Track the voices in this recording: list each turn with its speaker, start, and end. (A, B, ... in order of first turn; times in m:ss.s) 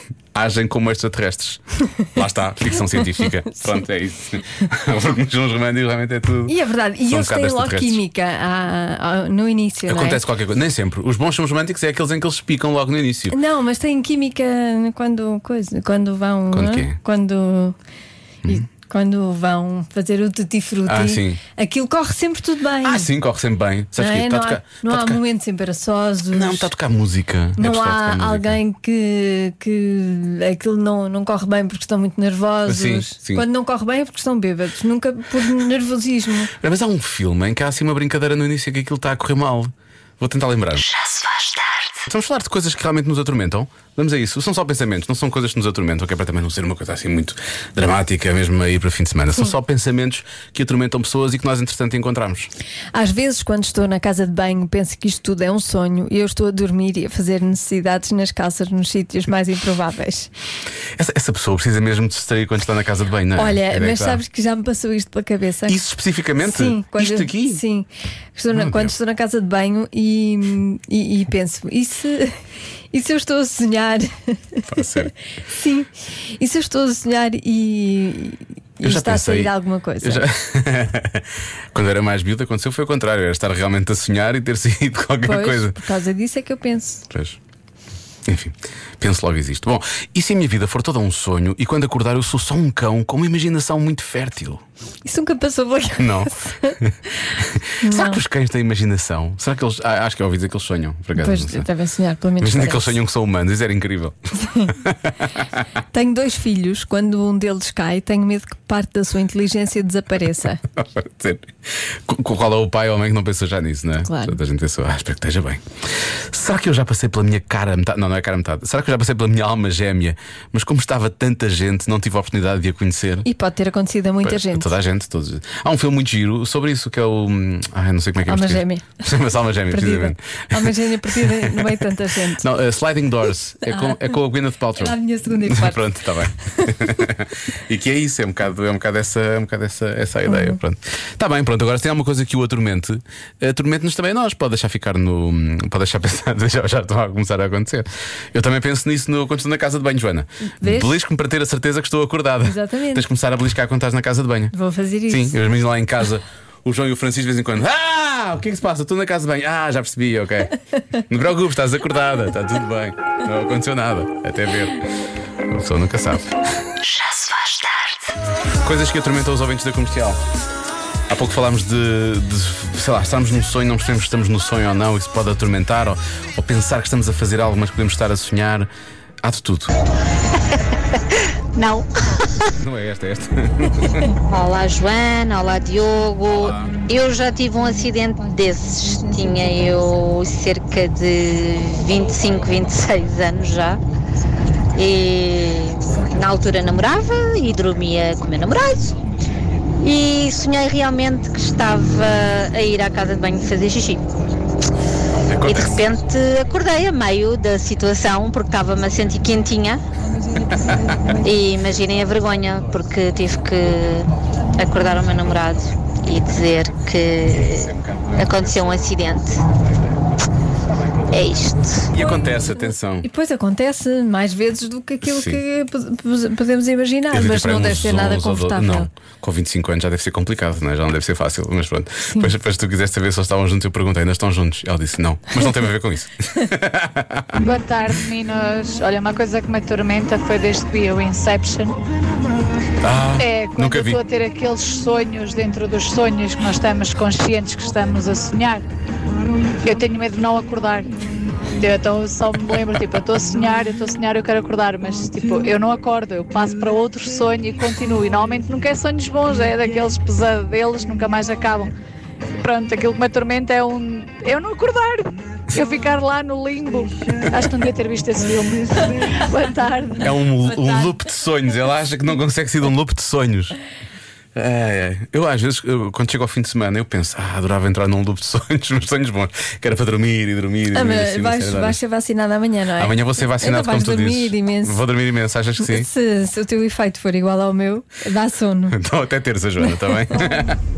0:00.3-0:06.5 A
0:06.5-0:10.2 B
0:07.1-0:08.0 A
0:09.9-0:13.4 A
0:13.3-0:17.8 B
0:16.5-0:17.0 A
0:18.5-0:23.1 B
0:20.8-0:21.4 A
0:22.8-0:25.2 A
0:24.0-0:26.7 B
0:26.3-0:28.6 A
0:27.6-0:36.5 B
0:32.6-0:33.4 A
0:36.6-0:40.9 A
0:40.8-0:42.0 C
0:42.1-0:52.5 A
0:52.9-1:00.3 B
1:01.0-1:04.2 A
1:03.4-1:05.8 B
1:05.7-1:07.6 A
1:06.4-1:12.4 B
1:08.5-1:08.9 A
1:12.9-1:20.2 B
1:14.7-1:15.1 A
1:18.8-1:25.8 A
1:25.2-1:27.0 B
1:27.1-1:27.4 A
1:28.2-1:34.6 A
1:35.0-1:36.8 B
1:36.0-1:41.7 A
1:37.3-1:38.2 B
1:41.2-1:43.0 B
1:42.4-1:44.2 A
1:44.4-1:44.7 B
1:44.7-1:45.5 A
1:45.9-1:50.6 B
1:50.7-2:03.3 A
1:54.0-1:54.4 B
2:03.2-2:04.8 B
2:04.2-2:34.5 A
2:08.3-2:09.0 B
2:09.7-2:12.4 B
2:14.8-2:15.8 B
2:20.3-2:20.6 B
2:30.4-2:30.9 B
2:32.4-2:33.0 B
2:34.5-2:35.4 B
2:35.1-2:40.5 A
2:41.1-2:44.8 A
2:45.5-2:46.4 A
2:46.8-2:48.1 C
2:48.6-2:50.2 A
2:51.1-2:58.7 A
2:59.2-2:59.7 A
3:01.6-3:01.8 D
3:02.5-3:04.1 A
3:04.3-3:13.8 D
3:06.3-3:06.8 A
3:08.7-3:09.7 B
3:14.7-3:19.0 D
3:19.8-3:24.0 D
3:25.2-3:25.9 A
3:25.4-3:29.8 D
3:30.1-3:31.1 B
3:30.6-3:31.2 A
3:31.2-3:39.4 D
3:37.2-3:39.0 A
3:41.1-3:41.9 D
3:41.9-3:43.0 A
3:42.0-3:48.9 B
3:45.0-3:45.4 A
3:47.1-3:57.4 A
3:52.0-3:52.3 B
3:57.4-4:01.7 E
4:02.8-4:04.0 A
4:03.2-4:08.6 E
4:09.6-4:10.8 E
4:11.6-4:21.7 E
4:22.4-4:30.0 E
4:30.0-4:33.6 A
4:30.5-4:30.9 B
4:34.3-4:41.8 A
4:40.7-4:44.8 B
4:42.8-4:45.9 A
4:45.6-4:48.8 B
4:48.7-4:50.6 A